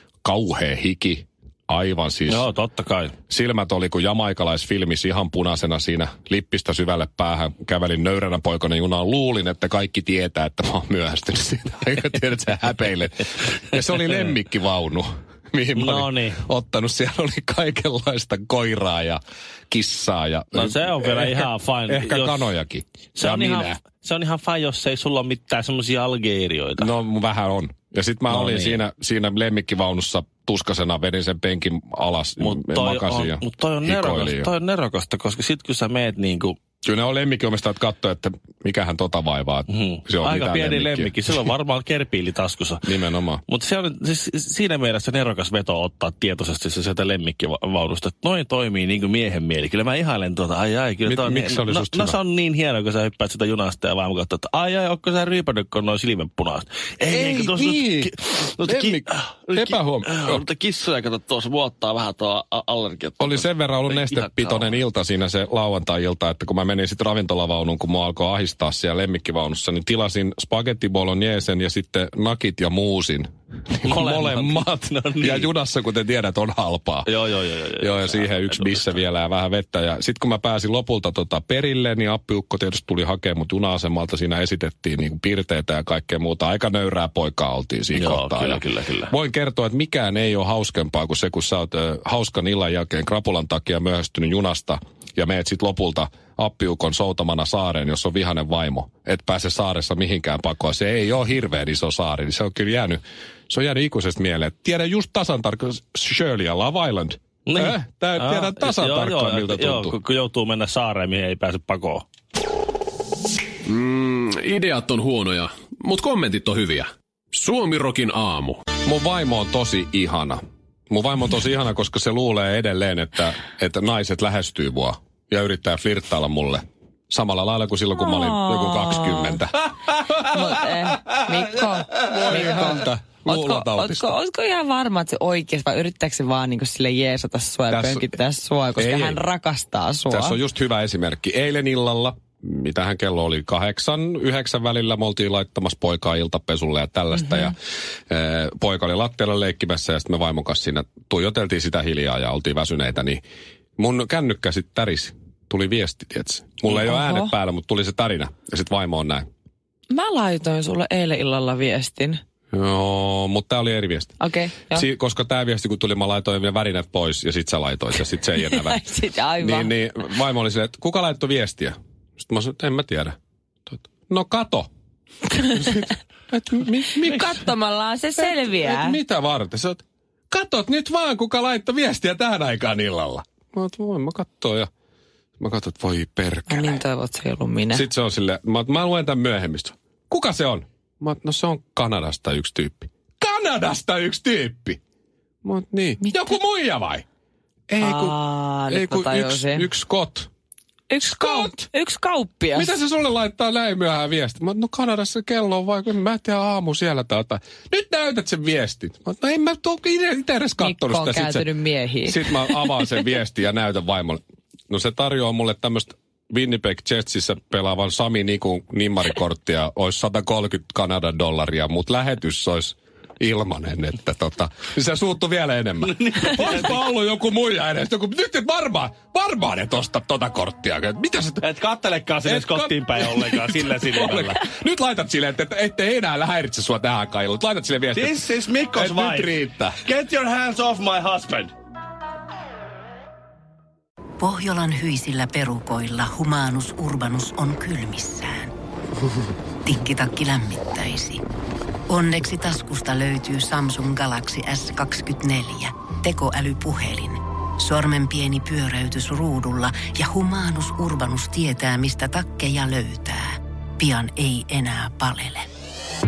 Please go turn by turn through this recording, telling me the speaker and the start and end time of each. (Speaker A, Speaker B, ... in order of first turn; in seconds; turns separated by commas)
Speaker A: 0.2-2.4, Speaker B: 2.3-3.1, Speaker A: 3.3-23.8, Speaker B: 15.8-16.4, Speaker B: 20.5-22.5, Speaker B: 23.1-26.9, Speaker A: 26.8-34.5, Speaker B: 28.3-28.8, Speaker B: 32.4-36.6, Speaker A: 36.8-41.4, Speaker B: 39.7-42.9, Speaker A: 42.8-43.4, Speaker B: 43.5-64.8, Speaker A: 51.0-52.2, Speaker A: 57.1-60.4, Speaker A: 63.2-77.1, Speaker B: 73.8-75.5, Speaker B: 77.0-79.0, Speaker A: 77.8-109.9, Speaker B: 87.9-89.1, Speaker B: 107.5-112.0, Speaker C: 113.7-118.6, Speaker A: 118.8-129.7, Speaker D: 128.0-129.4, Speaker D: 130.2-140.4, Speaker A: 132.0-134.1, Speaker A: 137.7-138.1, Speaker A: 138.8-139.2, Speaker A: 140.1-147.6, Speaker D: 147.1-147.5, Speaker A: 148.1-153.2, Speaker A: 153.8-159.2, Speaker D: 156.7-157.3, Speaker D: 159.9-162.2, Speaker A: 162.5-164.1, Speaker D: 164.2-164.8, Speaker A: 164.7-168.8, Speaker D: 168.4-169.7, Speaker A: 169.4-173.2, Speaker A: 173.7-174.7, Speaker A: 175.5-177.5, Speaker D: 177.0-179.0, Speaker A: 178.2-184.7, Speaker A: 185.4-186.8, Speaker D: 186.5-187.9, Speaker A: 187.7-194.8, Speaker A: 195.4-197.0, Speaker D: 196.0-196.4, Speaker A: 197.7-198.2, Speaker D: 197.8-199.7, Speaker A: 198.7-200.3, Speaker D: 200.9-202.7, Speaker A: 201.0-201.6, Speaker A: 202.5-211.5, Speaker D: 210.6-212.9, Speaker A: 212.0-231.4, Speaker B: 225.8-226.8, Speaker B: 231.4-234.5, Speaker A: 232.2-238.2, Speaker B: 237.9-241.5, Speaker A: 238.7-239.8, Speaker E: 244.2-248.5, Speaker E: 249.6-251.2, Speaker E: 251.9-265.5